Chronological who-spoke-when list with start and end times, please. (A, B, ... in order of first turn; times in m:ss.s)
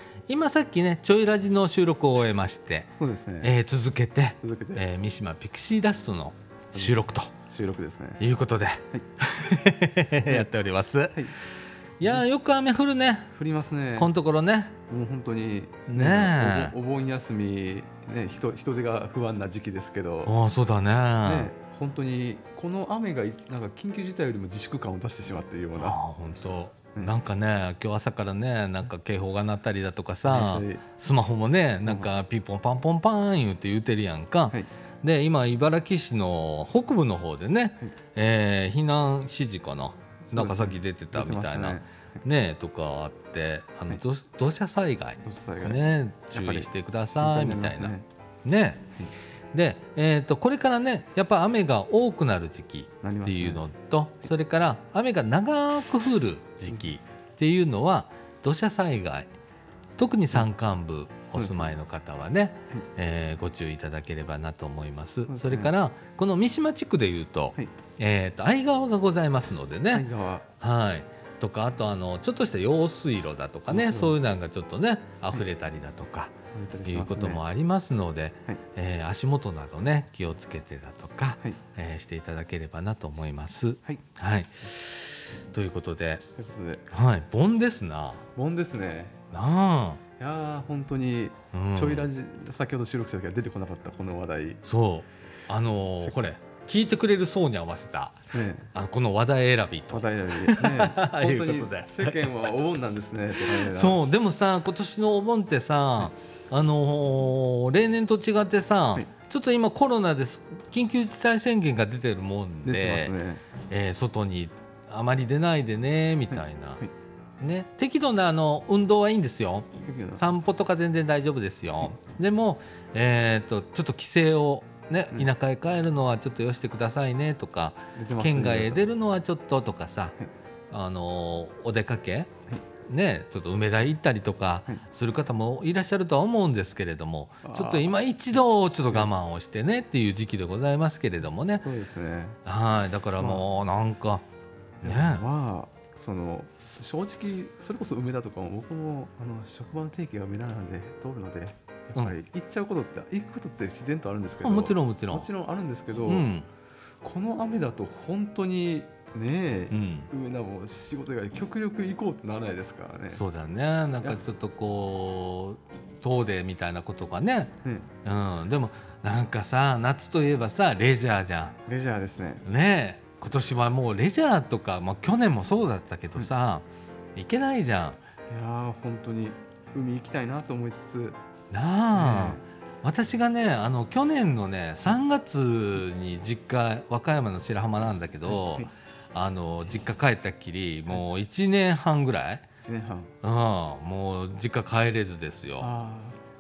0:00.3-0:02.9 A
0:03.0-0:03.6 B
0:03.4-0:07.3 A
0:04.4-0:04.8 B
0:06.7-0:08.2 B
0:08.2-0:11.3 A
0:12.0-0:13.3 A
0:13.4-0:14.1 B
0:14.0-0:14.8 A
0:14.9-0:20.4 B
0:15.9-0:16.8 A
0:20.2-0:21.5 A
0:21.2-0:26.0 B
0:25.8-0:47.9 A
0:30.2-0:30.9 B
0:40.2-0:41.9 B
0:45.2-0:48.1 B
0:48.4-0:48.9 A
0:49.5-0:59.3 A
0:53.0-0:53.6 B
1:00.0-1:10.1 A
1:01.3-1:01.7 B
1:05.3-1:05.7 B
1:09.9-1:10.4 B
1:10.6-1:26.2 A
1:13.7-1:14.2 B
1:16.5-1:17.4 B
1:26.4-1:26.9 B
1:26.9-1:28.2 A
1:28.3-1:29.2 B
1:29.3-1:30.0 A
1:30.2-1:34.6 B
1:31.5-1:32.1 A
1:34.6-1:42.2 A
1:38.3-1:38.7 B
1:39.9-1:44.0 B
1:43.4-1:53.2 A
1:52.6-1:53.4 B
1:53.7-1:56.8 A
1:57.4-2:10.2 A
1:59.8-2:00.3 B
2:07.9-2:08.9 B
2:10.7-2:12.3 A
2:12.9-2:21.7 A
2:17.4-2:18.0 B
2:21.6-2:22.4 B
2:22.4-2:24.2 A
2:23.2-2:23.5 B
2:24.8-2:25.2 A
2:24.8-2:36.3 B
2:34.4-2:35.3 A
2:36.1-2:36.5 A
2:37.0-2:43.2 B
2:39.7-2:40.1 A
2:43.1-2:51.6 A
2:51.7-2:52.4 B
2:52.4-2:58.0 A
2:58.3-3:01.2 B
3:01.5-3:12.4 A
3:01.9-3:02.4 B
3:08.3-3:08.7 B
3:12.6-3:13.1 B
3:13.2-3:15.7 A
3:15.6-3:16.2 B